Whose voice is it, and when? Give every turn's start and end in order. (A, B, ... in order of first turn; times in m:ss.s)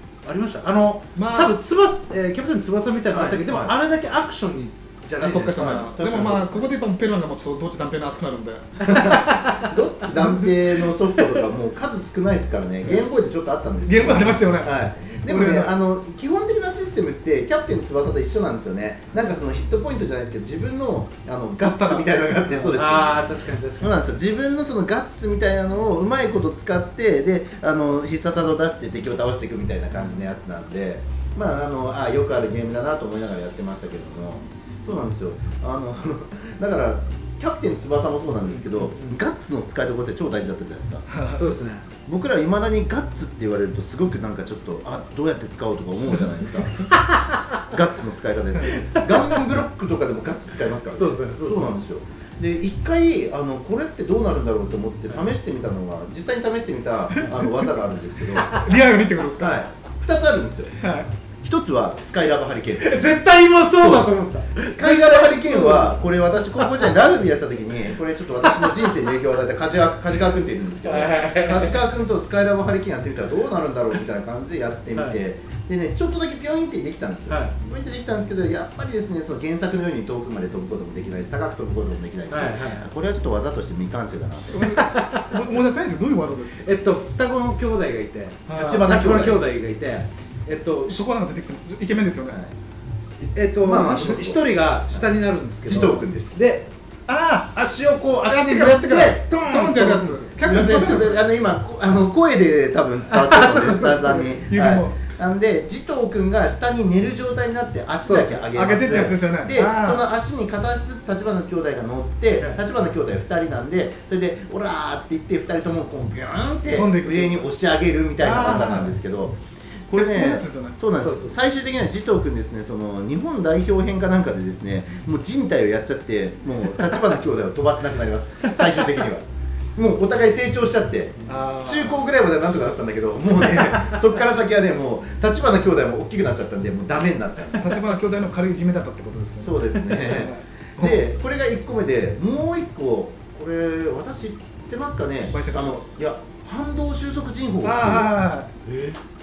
0:00.2-0:05.6 A
0:01.1-0:01.6 B
0:03.1-0:03.8 C
0:05.2-0:09.1 B
0:05.5-0:06.6 C
0:08.8-0:23.3 C
0:10.1-0:10.5 B
0:13.8-0:14.7 B
0:15.3-0:15.7 B
0:21.6-0:22.0 B
0:22.5-0:24.1 A
0:23.8-0:41.0 C
0:29.9-0:30.3 A
0:38.4-0:39.2 A
0:41.1-0:41.4 B
0:41.3-0:41.9 A
0:42.1-0:46.8 C
0:46.9-0:47.4 A
0:47.7-0:58.6 C
0:48.8-0:49.4 A
0:50.9-0:51.8 A
0:57.2-0:57.5 B
0:58.5-0:59.6 B
0:59.4-1:00.7 C
1:00.8-1:01.1 B
1:01.4-1:03.2 C
1:02.8-1:06.0 A
1:03.8-1:24.7 C
1:08.4-1:09.0 A
1:10.8-1:11.8 A
1:14.9-1:15.2 A
1:17.3-1:17.5 A
1:22.3-1:22.9 A
1:24.5-1:26.7 B
1:24.7-1:25.2 A
1:26.6-1:31.1 A
1:28.5-1:28.9 B
1:28.5-1:29.5 C
1:30.8-1:32.4 B
1:32.3-1:32.5 C
1:33.2-1:36.7 A
1:33.5-1:35.1 C
1:35.6-1:36.4 C
1:37.1-1:37.5 B
1:37.5-1:40.5 A
1:38.2-1:41.2 B
1:40.4-1:59.4 C
1:43.1-1:44.4 A
1:44.5-1:45.0 B
1:48.0-1:48.5 A
1:48.5-1:50.0 B
1:56.7-1:57.4 B
1:58.2-1:58.9 B
1:59.9-2:09.2 C
1:59.9-2:00.8 B
2:01.0-2:01.4 A
2:08.5-2:08.9 A
2:09.8-2:17.8 C
2:11.3-2:12.0 B
2:17.6-2:21.0 B
2:19.4-2:28.1 C
2:25.3-2:25.7 B
2:27.6-2:28.5 B
2:28.6-2:29.0 A